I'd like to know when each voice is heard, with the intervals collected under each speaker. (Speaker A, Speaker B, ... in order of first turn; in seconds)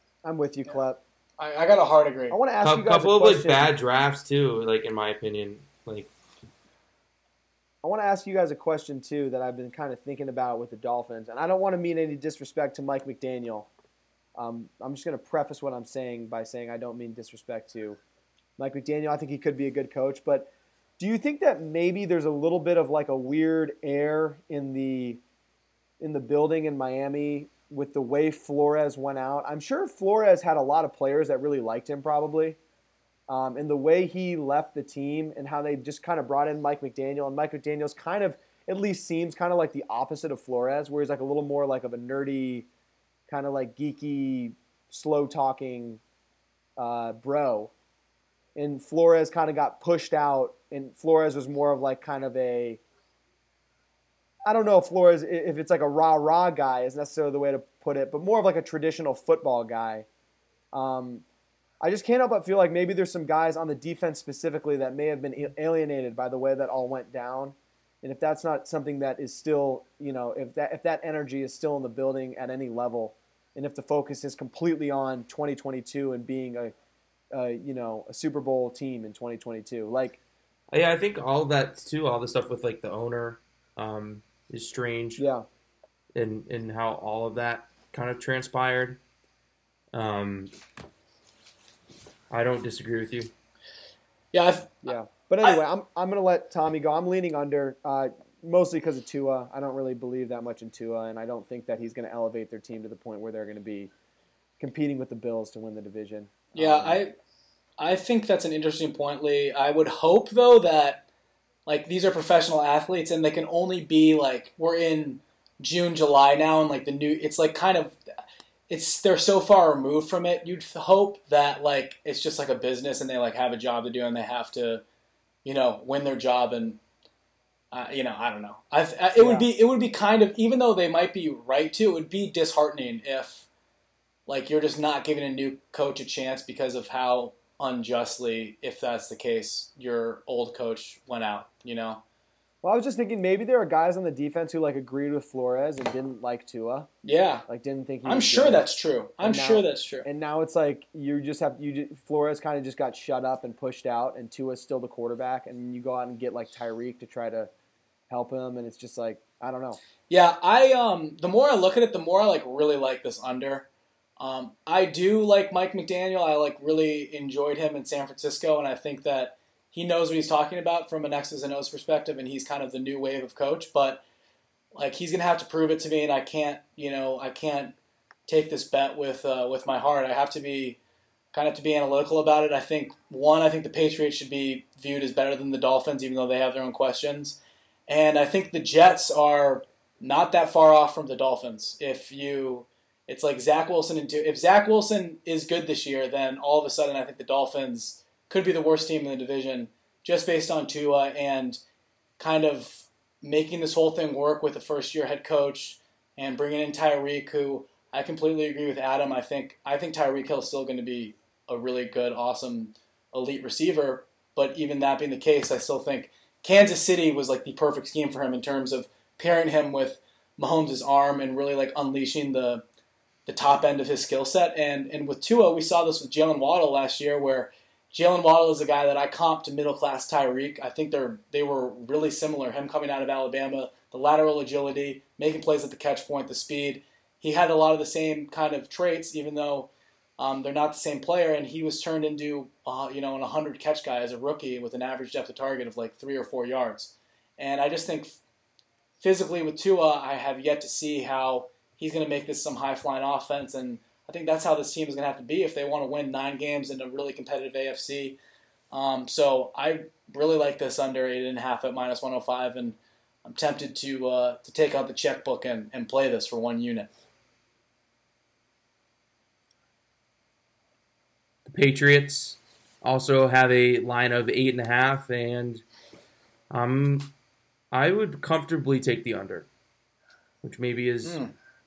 Speaker A: 0.2-1.0, 2.3-3.7, 7.8-13.7, 14.3-18.0, 18.6-25.2, 26.0-32.6, 33.3-42.7, 43.3-46.0, 46.8-47.7, 48.5-52.8, 54.5-60.0, 60.7-61.2, 61.8-76.7, 77.3-80.2, 85.2-85.4, 94.8-103.9, 104.6-107.0, 129.2-129.5, 142.6-146.9, 147.5-148.7, 149.2-157.5, 158.1-159.8
Speaker B: 1.4-2.4, 94.3-95.6, 106.5-107.2, 107.8-111.0, 111.7-118.0, 118.7-124.8, 125.4-126.8, 127.7-133.5, 134.3-142.0, 147.0-147.4, 148.0-150.1, 160.1-163.7, 164.2-174.0, 174.7-177.7, 178.3-180.8, 181.3-201.6, 202.2-222.6, 223.3-248.2, 249.0-258.2, 258.7-266.9, 281.0-281.3
Speaker C: 2.6-6.1, 80.7-85.2, 86.1-89.0, 89.9-90.5, 92.3-93.3, 271.4-275.6, 276.5-277.1, 277.7-279.5, 280.4-281.2